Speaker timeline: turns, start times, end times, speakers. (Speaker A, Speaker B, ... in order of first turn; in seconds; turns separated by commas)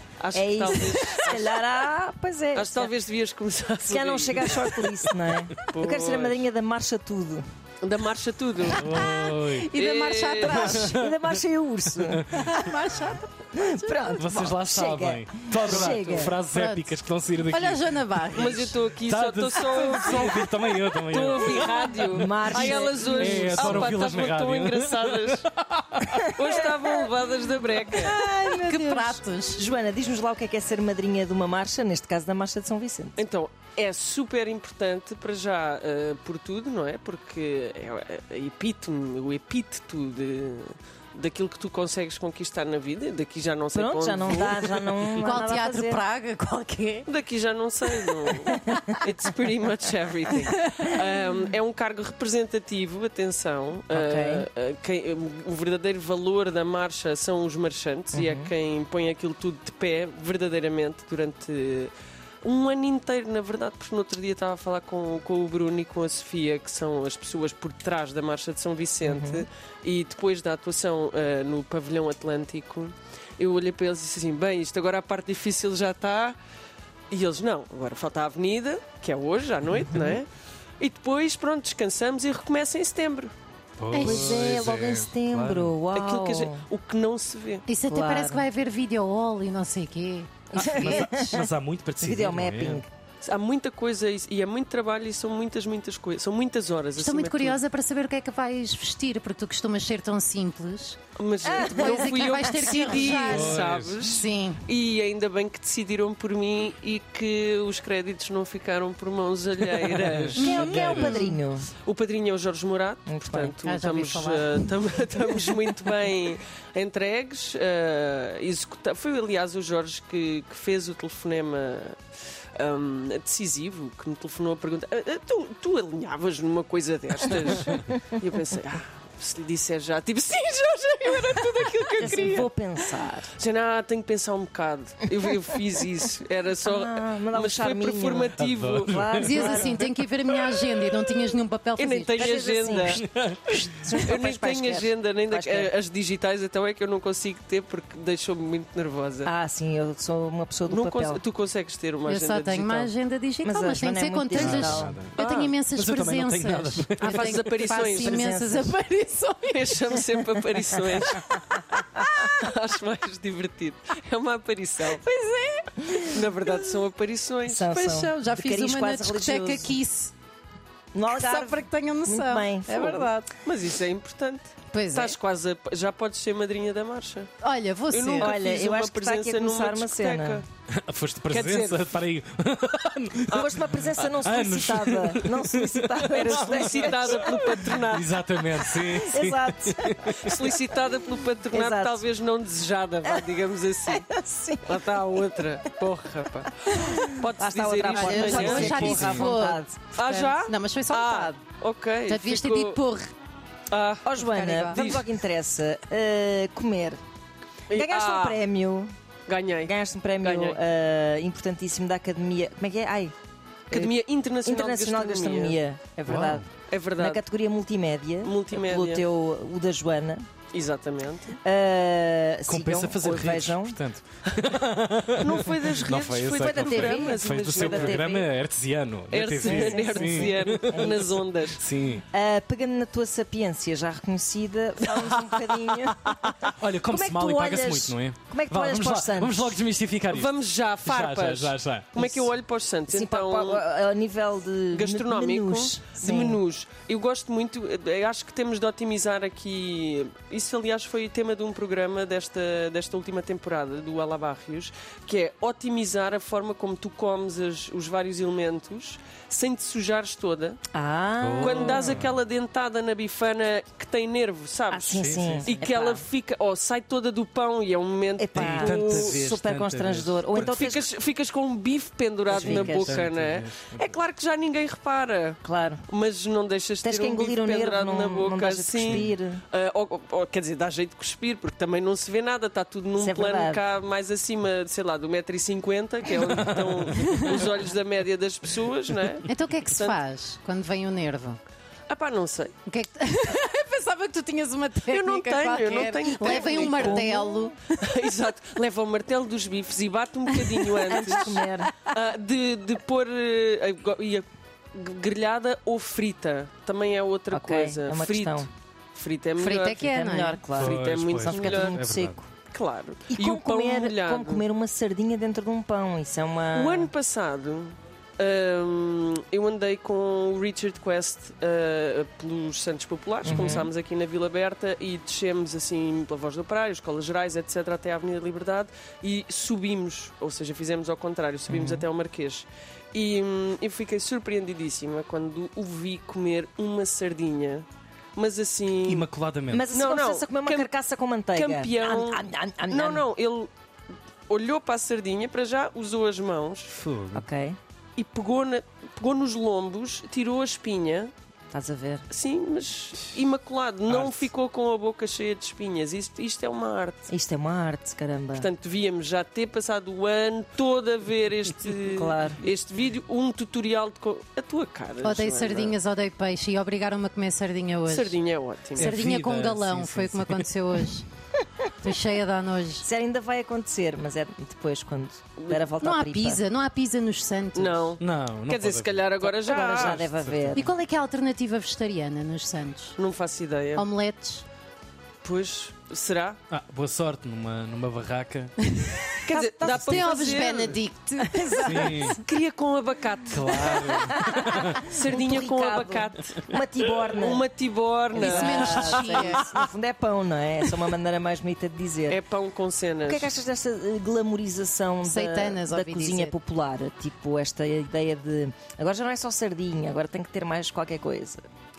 Speaker A: 0.2-1.7, Speaker B: 0.3-2.9, Speaker A: 2.5-4.9, Speaker B: 3.9-7.4, Speaker A: 5.7-6.5, Speaker A: 7.8-8.9, Speaker C: 8.8-11.0, Speaker D: 8.8-9.7, Speaker A: 9.8-11.0, Speaker B: 10.4-12.3, Speaker D: 12.1-12.7, Speaker C: 12.3-14.1, Speaker B: 13.5-16.4, Speaker D: 14.2-18.0, Speaker A: 15.7-16.2, Speaker C: 16.5-18.8, Speaker A: 18.3-25.4, Speaker D: 19.0-26.2, Speaker B: 22.1-23.9, Speaker A: 26.3-28.2, Speaker B: 27.9-33.2, Speaker C: 28.1-29.7, Speaker A: 33.2-45.2, Speaker B: 43.8-46.0, Speaker C: 45.2-47.1, Speaker A: 47.1-76.4, Speaker B: 53.9-54.5, Speaker B: 58.1-58.5, Speaker B: 69.0-69.5, Speaker A: 77.1-80.3, Speaker A: 80.8-83.3, Speaker D: 83.8-85.8, Speaker C: 83.9-84.5, Speaker B: 84.0-86.6, Speaker A: 85.9-87.7, Speaker C: 87.7-91.1, Speaker B: 87.9-88.5, Speaker B: 90.5-92.9, Speaker D: 90.6-92.8, Speaker A: 93.2-97.6, Speaker C: 97.0-101.0, Speaker A: 101.2-110.7, Speaker B: 101.4-103.4, Speaker C: 101.6-104.6, Speaker D: 103.2-104.0, Speaker D: 109.9-111.2, Speaker B: 110.4-111.7, Speaker C: 110.4-111.4, Speaker A: 111.8-122.0, Speaker B: 113.1-113.5, Speaker C: 113.6-114.8, Speaker A: 122.5-139.7, Speaker B: 132.0-133.3, Speaker B: 136.7-138.3, Speaker D: 138.4-139.5, Speaker B: 138.8-139.8, Speaker C: 139.2-142.3, Speaker A: 141.8-143.0, Speaker B: 142.2-145.7, Speaker D: 142.9-143.6, Speaker A: 143.7-149.3, Speaker B: 149.2-151.2, Speaker A: 150.7-152.9, Speaker C: 152.1-160.0, Speaker B: 153.4-155.0, Speaker D: 154.3-155.2, Speaker A: 155.2-155.6, Speaker D: 155.8-157.3, Speaker A: 157.0-158.3, Speaker B: 157.5-158.7, Speaker A: 159.5-161.7, Speaker A: 162.2-165.0, Speaker C: 165.0-166.1, Speaker A: 166.1-167.7, Speaker B: 167.4-169.8, Speaker C: 167.7-170.1, Speaker B: 170.9-173.1, Speaker C: 171.1-173.3, Speaker A: 172.7-177.3, Speaker C: 174.7-175.2, Speaker C: 177.4-178.3, Speaker A: 177.9-180.4, Speaker B: 178.2-180.4, Speaker D: 180.7-190.4, Speaker A: 181.3-182.0, Speaker B: 183.3-187.7, Speaker A: 186.2-188.6, Speaker B: 188.6-190.3, Speaker A: 190.2-194.1, Speaker B: 191.5-192.1, Speaker B: 193.0-194.9, Speaker A: 194.7-199.1, Speaker B: 196.7-199.8, Speaker C: 197.9-201.4, Speaker D: 198.5-199.3, Speaker A: 199.9-202.8, Speaker C: 202.1-203.1, Speaker A: 203.7-204.2, Speaker B: 204.0-207.0, Speaker C: 204.2-204.8, Speaker A: 204.7-205.1, Speaker A: 207.7-208.4, Speaker B: 207.7-208.9, Speaker A: 209.3-210.6, Speaker B: 209.7-213.1, Speaker A: 213.7-215.6, Speaker B: 213.7-220.3, Speaker D: 216.1-216.4, Speaker A: 216.7-217.2, Speaker A: 218.2-219.1, Speaker A: 220.5-221.3, Speaker B: 221.4-223.8, Speaker D: 222.5-232.0, Speaker A: 225.2-228.2, Speaker B: 226.4-228.2, Speaker A: 229.1-231.6, Speaker B: 229.4-231.1, Speaker B: 232.1-239.6, Speaker D: 235.1-241.9, Speaker A: 240.1-243.6, Speaker B: 242.0-242.3, Speaker B: 242.9-246.4, Speaker A: 244.7-260.6, Speaker B: 260.7-262.1, Speaker D: 261.2-262.2, Speaker A: 261.4-269.2, Speaker B: 264.7-266.1, Speaker D: 264.9-265.7, Speaker B: 268.2-270.9, Speaker D: 268.4-270.6, Speaker A: 270.3-290.0, Speaker B: 272.3-273.1, Speaker D: 272.4-274.0, Speaker B: 275.4-275.8, Speaker B: 276.8-279.4, Speaker B: 283.0-283.6, Speaker D: 286.4-287.2, Speaker C: 287.0-287.3, Speaker C: 289.3-291.4, Speaker A: 291.9-292.6, Speaker C: 292.7-297.8, Speaker A: 294.9-297.1, Speaker B: 296.1-297.6, Speaker A: 297.8-309.9, Speaker B: 300.9-301.8, Speaker B: 307.3-308.5, Speaker C: 309.4-310.4, Speaker B: 309.8-312.2, Speaker D: 310.5-312.2, Speaker A: 310.6-311.8, Speaker A: 312.5-314.4, Speaker B: 313.1-316.9, Speaker A: 316.5-339.1, Speaker B: 323.2-323.7, Speaker B: 331.6-331.9, Speaker D: 338.9-339.8, Speaker B: 339.5-343.1, Speaker A: 339.7-340.7, Speaker A: 341.3-343.5, Speaker A: 344.3-346.7, Speaker D: 346.7-347.3, Speaker B: 347.1-347.6, Speaker A: 348.0-351.1, Speaker B: 351.5-352.1, Speaker A: 352.1-357.1, Speaker D: 353.9-354.3, Speaker B: 357.1-358.5, Speaker A: 358.4-365.8, Speaker B: 361.9-362.4, Speaker C: 365.0-368.2, Speaker A: 367.9-368.9, Speaker D: 368.8-370.5, Speaker C: 368.8-371.1, Speaker C: 371.8-372.9, Speaker B: 372.8-376.4, Speaker C: 375.8-377.9, Speaker A: 377.6-380.1, Speaker D: 378.0-380.6, Speaker B: 379.3-380.7, Speaker C: 380.5-383.0, Speaker A: 383.0-383.9, Speaker C: 383.8-384.4, Speaker A: 385.2-386.4, Speaker D: 386.5-388.5, Speaker C: 388.8-389.1, Speaker A: 389.2-390.8, Speaker B: 389.3-390.5, Speaker C: 389.6-391.9, Speaker B: 391.2-392.2, Speaker D: 391.6-392.2, Speaker A: 392.2-394.1, Speaker D: 393.3-394.9, Speaker B: 393.7-397.4, Speaker A: 394.9-399.7, Speaker B: 398.1-402.2, Speaker C: 398.2-399.5, Speaker A: 402.1-403.3, Speaker B: 403.1-411.4, Speaker C: 405.0-406.3